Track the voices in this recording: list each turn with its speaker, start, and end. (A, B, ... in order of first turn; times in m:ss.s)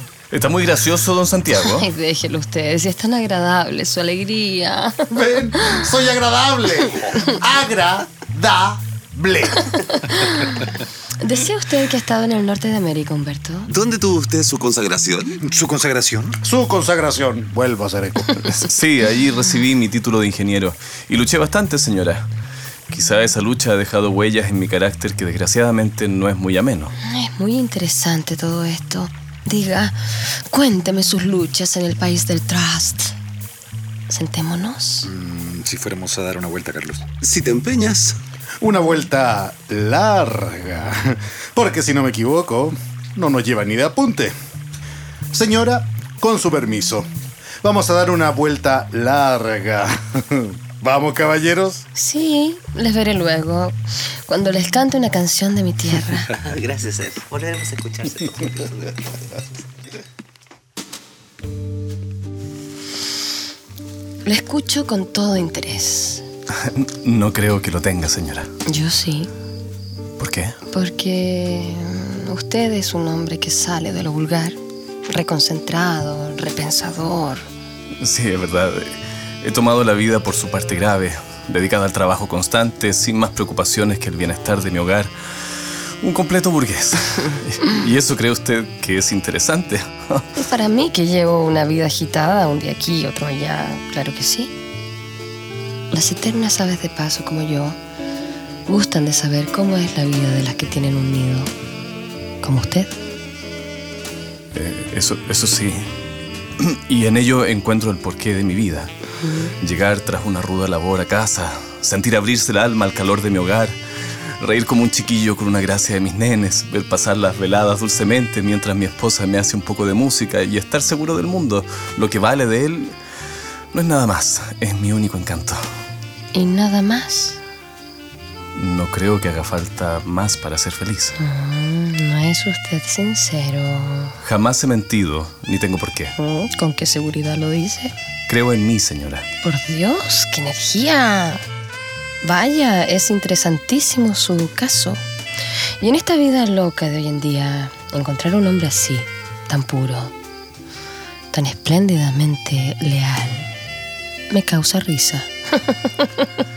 0:00.3-0:01.9 A
0:01.6-0:05.0 B
0:05.1-0:10.0 C
0:10.2-0:10.5 B
0:11.2-0:13.7 B
0:15.4-0:16.4 D
0:16.4-0:18.5 C
0:18.5-0:22.2 A
0:22.9-0:26.9 A
0:27.0-0:33.1 B
0:34.1-0:35.1 B
0:35.0-0:37.1 D
0:37.3-0:38.1 E
0:38.6-0:44.4 C
0:45.3-0:47.1 C
0:47.6-0:51.8 C
0:52.0-0:56.3 B
0:56.4-0:58.7 E
1:04.2-1:06.2 B
1:06.6-1:08.5 A
1:08.7-1:09.3 B
1:10.2-1:10.6 A
1:10.7-1:14.6 B
1:15.1-1:17.4 B
1:18.0-1:25.1 A
1:26.0-1:30.2 A
1:30.4-1:34.5 B
1:35.9-1:37.8 B
1:38.7-1:41.5 B
1:42.4-1:42.9 B
1:44.5-1:45.9 A
1:46.6-1:48.9 A
1:49.2-1:49.5 B
1:49.6-1:53.8 A
1:54.4-2:03.0 A
2:03.7-2:05.6 A
2:06.3-2:07.4 B
2:08.6-2:11.2 A
2:11.2-2:14.2 B
2:14.2-2:16.1 A
2:16.2-2:17.9 B
2:18.3-2:19.2 A
2:19.4-2:21.4 B
2:22.2-2:25.0 B
2:25.8-2:30.1 B
2:31.3-2:33.5 B
2:34.3-2:36.2 B